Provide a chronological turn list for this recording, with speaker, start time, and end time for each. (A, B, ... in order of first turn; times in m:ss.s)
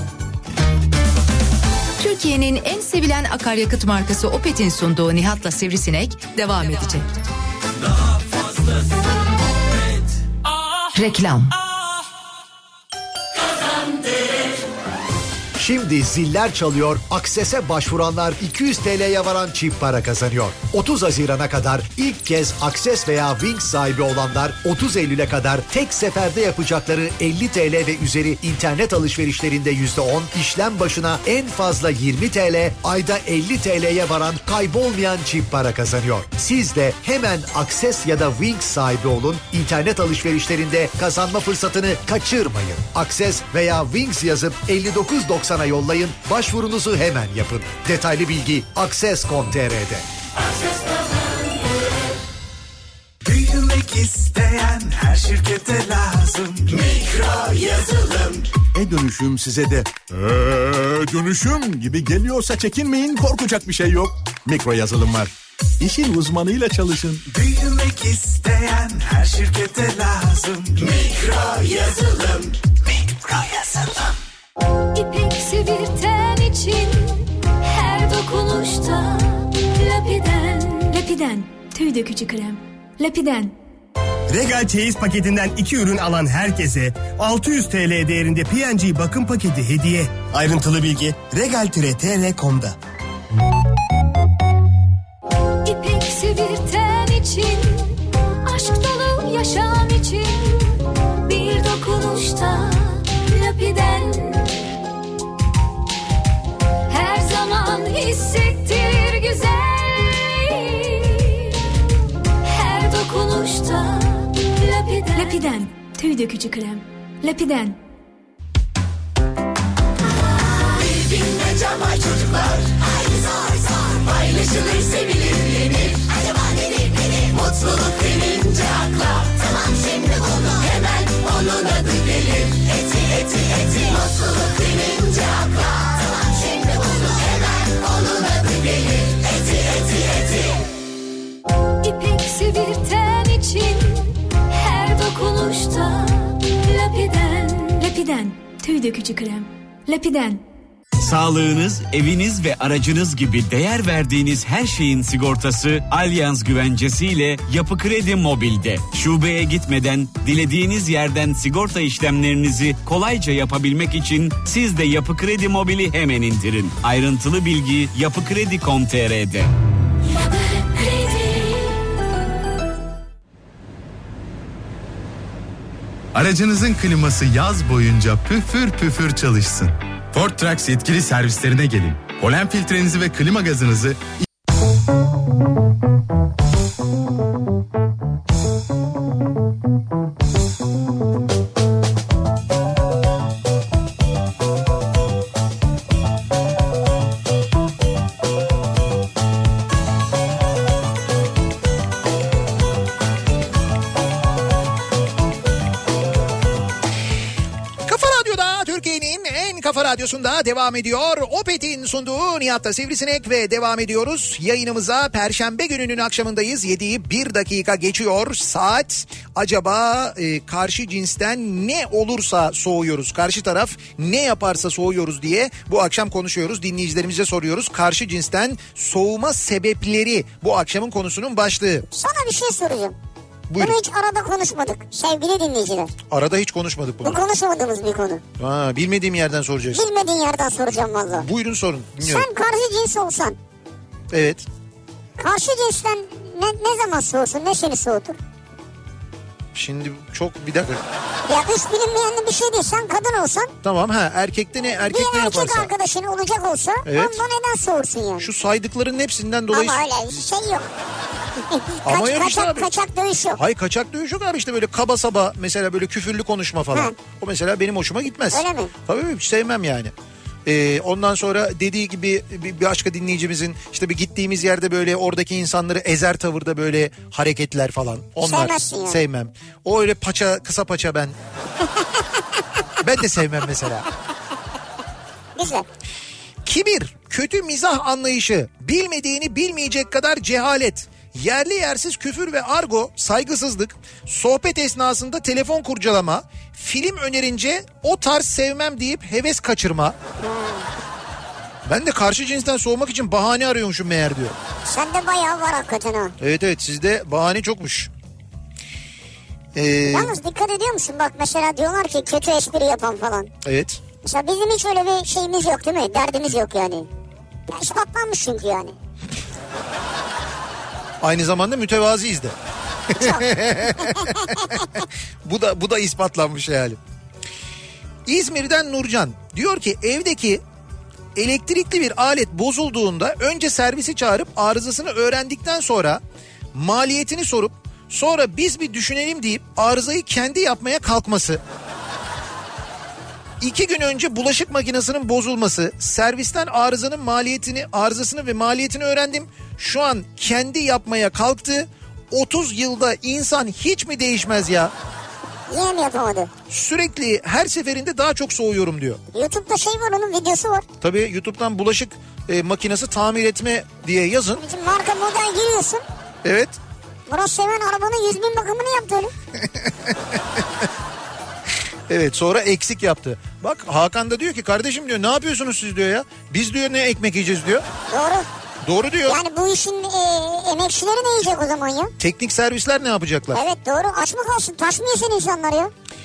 0:02.0-0:07.1 A
0:10.9-0:11.6 A
0:15.6-0:50.0 B
0:53.3-0:58.3 C
0:58.7-1:07.3 D
1:07.3-1:11.9 C
1:13.2-1:13.8 D
1:14.9-1:23.6 E
1:24.3-1:32.8 F
1:35.6-1:44.6 E
1:46.9-1:51.5 E
1:52.4-1:57.8 E
2:21.8-2:30.4 E
2:31.0-2:49.5 G
2:56.1-3:04.1 H
3:27.9-3:51.9 I
3:51.9-3:53.0 J
3:53.5-3:53.8 I
3:53.6-3:55.9 J
3:56.1-3:57.2 I
3:57.0-3:58.2 J
3:58.4-3:59.8 I
3:59.7-4:01.3 J
4:01.1-4:02.3 I
4:02.0-4:03.4 J
4:04.1-4:04.4 I
4:05.2-4:08.2 J
4:09.6-4:10.8 I
4:11.3-4:13.5 J
4:13.6-4:15.7 I
4:14.7-4:18.3 J
4:16.8-4:17.2 I
4:18.2-4:19.8 I
4:19.5-4:20.7 J
4:21.5-4:23.4 J
4:21.8-4:22.7 I
4:23.4-4:29.9 I
4:28.3-4:28.7 J
4:30.5-4:41.2 I
4:38.2-4:39.0 J
4:42.8-4:43.9 I
4:45.4-4:45.7 J
4:46.4-5:00.0 I
5:00.2-5:00.7 J
5:01.7-5:04.4 I
5:04.6-5:06.1 J
5:06.2-5:07.9 I
5:09.6-5:10.2 I
5:09.9-5:13.3 J
5:13.4-5:13.8 I
5:14.0-5:16.9 J
5:17.5-5:18.8 J
5:21.0-5:22.3 I
5:22.9-5:26.8 I
5:23.0-5:24.8 J
5:28.1-5:30.4 I
5:31.2-5:36.0 I
5:36.5-5:41.4 I
5:43.4-5:54.7 I
5:55.5-5:56.3 J
5:56.5-5:59.0 I
5:59.1-6:00.6 J
6:00.8-6:04.4 I
6:04.4-6:05.8 J
6:06.2-6:06.6 I
6:07.1-6:09.1 J
6:09.4-6:10.0 I
6:11.9-6:17.6 I
6:17.9-6:18.3 J
6:18.6-6:19.2 I
6:19.1-6:21.9 J
6:22.0-6:23.4 I
6:23.3-6:25.7 J